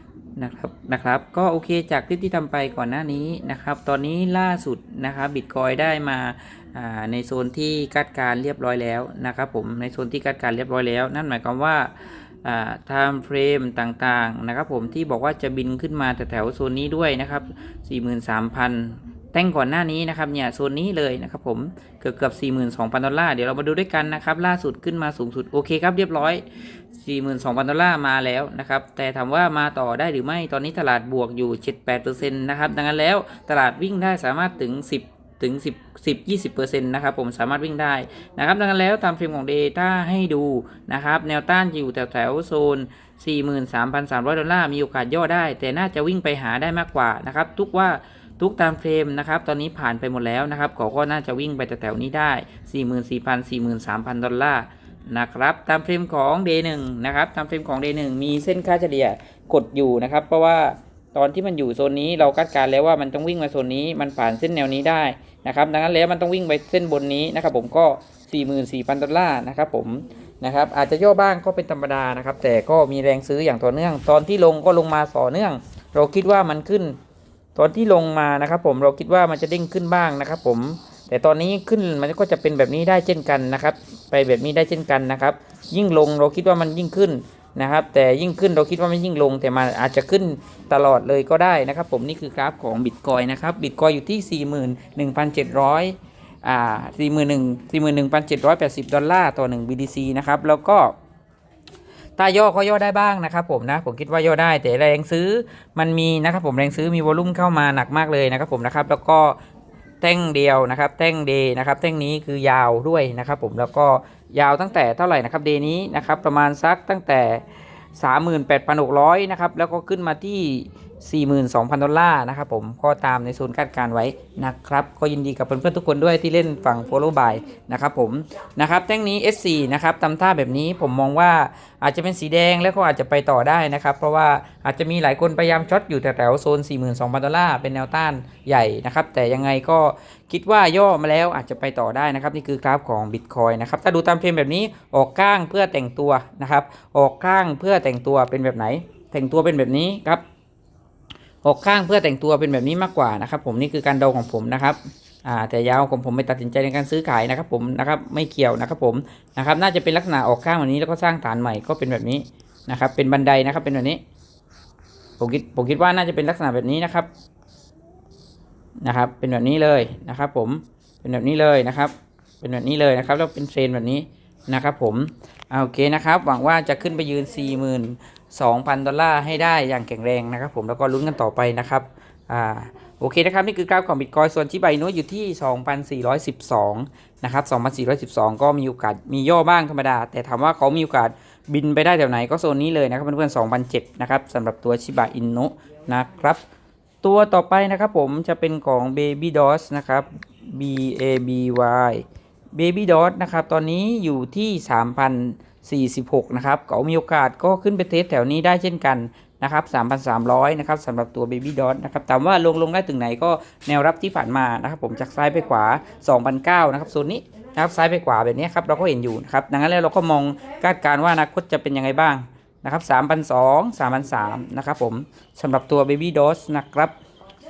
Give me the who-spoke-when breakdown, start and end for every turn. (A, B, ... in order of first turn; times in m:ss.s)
0:00.4-0:11.9 A
0:12.4-0:26.4 A
0:27.0-1:17.0 A
1:17.6-1:41.0 A
1:42.2-1:49.4 A
1:50.0-1:57.4 A
1:58.0-2:30.2 A
2:31.4-2:44.0 A
2:45.2-2:47.1 A
2:48.8-3:16.4 A
3:17.0-3:46.9 A